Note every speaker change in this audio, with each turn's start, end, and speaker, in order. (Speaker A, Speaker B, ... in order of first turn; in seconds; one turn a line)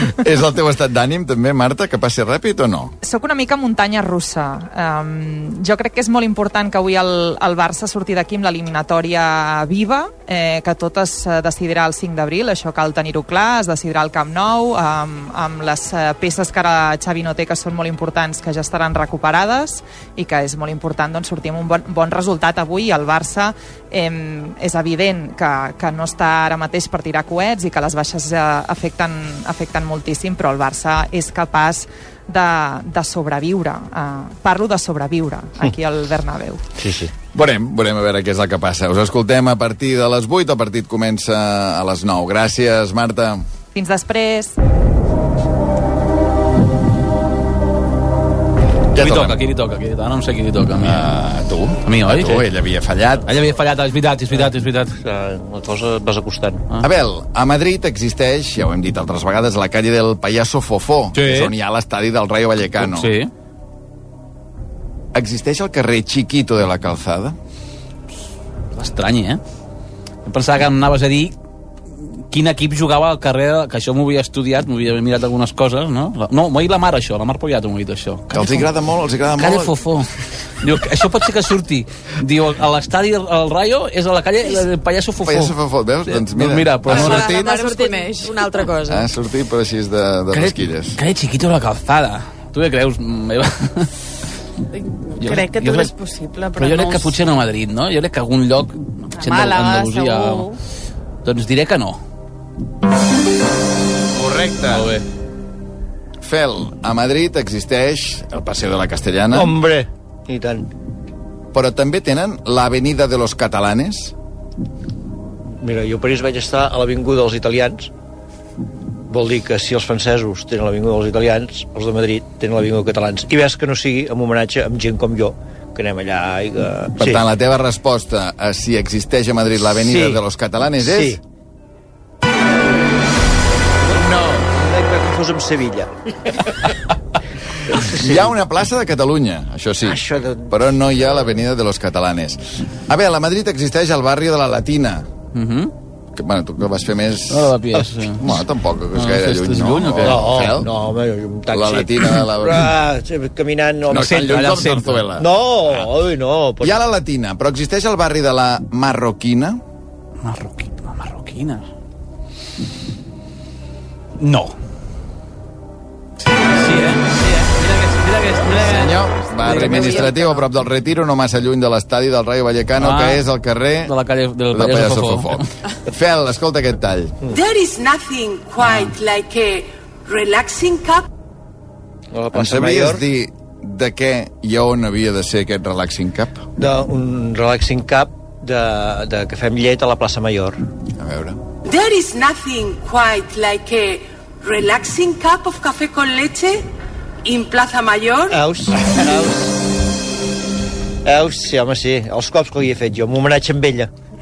Speaker A: 0.2-2.9
Speaker B: 3.0-36.6
Speaker C: 36.8-37.1
Speaker A: 37.3-43.5
Speaker B: 43.7-44.6
Speaker A: 48.9-49.4
Speaker D: 49.0-51.1
Speaker A: 50.8-53.3
Speaker D: 51.9-52.4
Speaker D: 53.3-54.9
Speaker C: 54.3-56.6
Speaker A: 56.8-63.1
Speaker D: 61.1-61.5
Speaker D: 62.8-63.3
Speaker A: 65.2-67.3
Speaker D: 68.8-69.4
Speaker D: 70.3-71.3
Speaker D: 72.3-78.7
Speaker A: 78.3-79.7
Speaker D: 79.4-80.1
Speaker D: 80.6-85.6
Speaker A: 85.2-87.6
Speaker D: 86.1-87.4
Speaker E: 86.9-89.1
Speaker F: 87.2-88.3
Speaker A: 88.9-91.0
Speaker D: 90.3-93.9
Speaker F: 94.7-97.2
Speaker D: 95.2-95.9
Speaker D: 96.6-100.5
Speaker F: 99.2-100.6
Speaker D: 101.2-102.0
Speaker A: 104.1-104.9
Speaker D: 104.7-105.0
Speaker A: 106.2-109.5
Speaker C: 109.3-110.7
Speaker A: 111.5-114.1
Speaker C: 115.6-117.9
Speaker C: 119.1-127.2
Speaker A: 127.0-131.2
Speaker C: 129.7-130.2
Speaker C: 130.8-131.2
Speaker C: 133.8-135.9
Speaker A: 134.0-134.4
Speaker C: 137.7-138.3
Speaker A: 138.0-145.1
Speaker C: 139.8-141.2
Speaker D: 145.3-145.7
Speaker A: 146.2-147.5
Speaker D: 147.3-148.3
Speaker A: 148.2-150.7
Speaker D: 148.9-150.5
Speaker C: 150.0-154.5
Speaker A: 151.5-152.7
Speaker A: 153.9-155.9
Speaker D: 154.0-155.1
Speaker C: 155.2-156.8
Speaker A: 156.6-159.6
Speaker D: 160.2-161.7
Speaker D: 164.2-164.6
Speaker D: 166.2-170.4
Speaker A: 168.5-173.9
Speaker E: 169.6-170.2
Speaker D: 172.8-173.2
Speaker D: 173.8-175.4
Speaker A: 174.5-177.2
Speaker G: 177.3-181.1
Speaker C: 182.1-183.0
Speaker A: 182.3-186.4
Speaker C: 186.6-190.6
Speaker A: 191.0-191.4
Speaker G: 191.7-196.7
Speaker G: 197.2-198.4
Speaker C: 198.3-199.6
Speaker C: 201.1-203.9